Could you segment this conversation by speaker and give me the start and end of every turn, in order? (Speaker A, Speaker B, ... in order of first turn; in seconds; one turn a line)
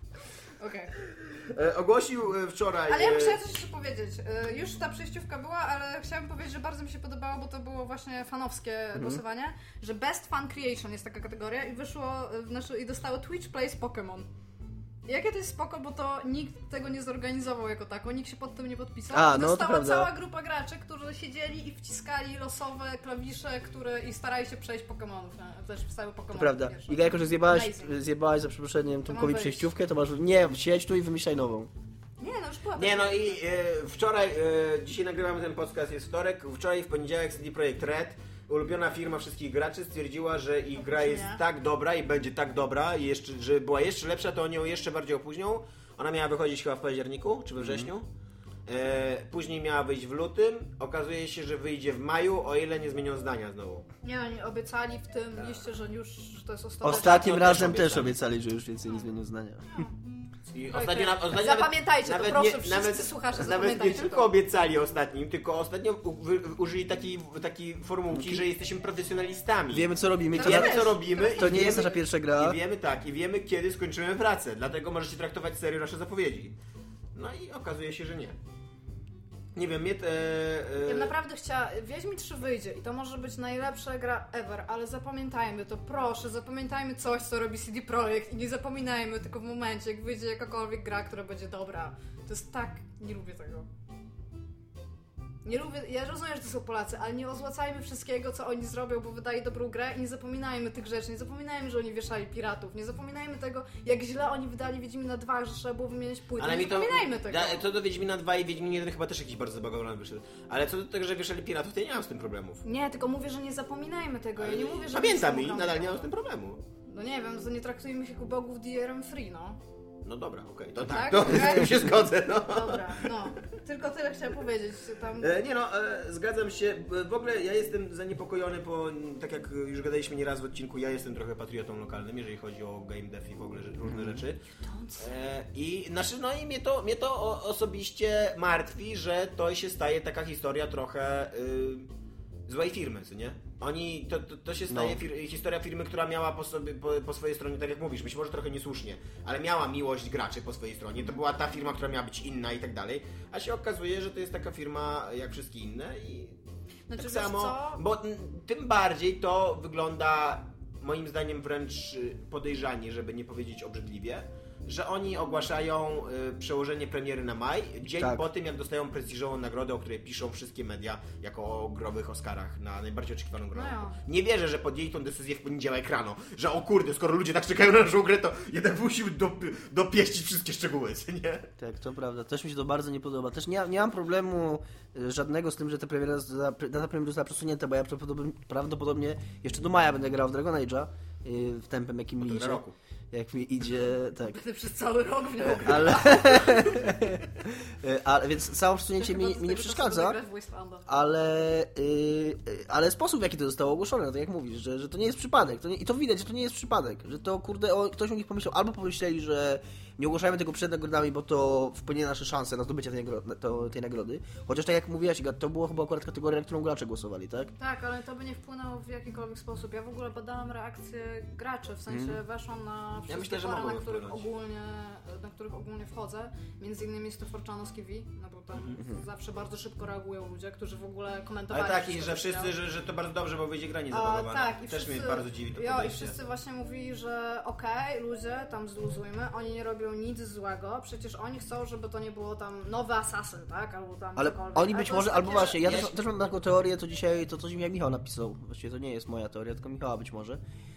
Speaker A: 0.6-0.9
Speaker B: 1.3-3.4
Speaker A: 2.9-14.3
Speaker C: 8.9-9.2
Speaker A: 15.1-27.9
Speaker C: 19.1-20.1
Speaker C: 26.3-31.7
Speaker A: 29.1-29.7
Speaker A: 32.2-33.4
Speaker B: 32.8-48.0
Speaker A: 40.7-41.4
Speaker C: 47.6-47.9
Speaker B: 48.7-53.9
Speaker A: 54.0-57.5
Speaker C: 56.8-59.8
Speaker B: 56.8-58.2
Speaker A: 59.7-59.9
Speaker B: 60.5-76.5
Speaker A: 60.7-64.3
Speaker C: 68.1-68.4
Speaker C: 69.7-72.6
Speaker A: 70.3-71.9
Speaker B: 77.1-78.3
Speaker B: 79.5-81.1
Speaker A: 80.8-93.7
Speaker A: 95.4-107.6
Speaker B: 106.4-112.6
Speaker A: 112.6-116.1
Speaker B: 114.4-116.6
Speaker A: 116.9-119.6
Speaker B: 120.0-123.1
Speaker A: 120.9-121.8
Speaker A: 122.4-125.3
Speaker B: 125.2-134.4
Speaker C: 133.8-134.2
Speaker A: 134.5-135.1
Speaker B: 135.0-141.9
Speaker B: 142.5-156.3
Speaker C: 144.7-145.0
Speaker A: 156.9-157.8
Speaker B: 156.9-181.5
Speaker C: 168.0-168.2
Speaker A: 173.5-174.0
Speaker C: 181.6-194.4
Speaker B: 192.2-192.7
Speaker A: 194.2-196.8
Speaker C: 195.6-200.2
Speaker A: 199.0-200.9
Speaker C: 200.8-217.5
Speaker A: 217.6-232.5
Speaker C: 221.9-222.2
Speaker B: 223.1-224.3
Speaker B: 228.5-228.8
Speaker B: 231.5-236.2
Speaker A: 233.9-245.6
Speaker C: 244.2-250.4
Speaker B: 245.6-245.9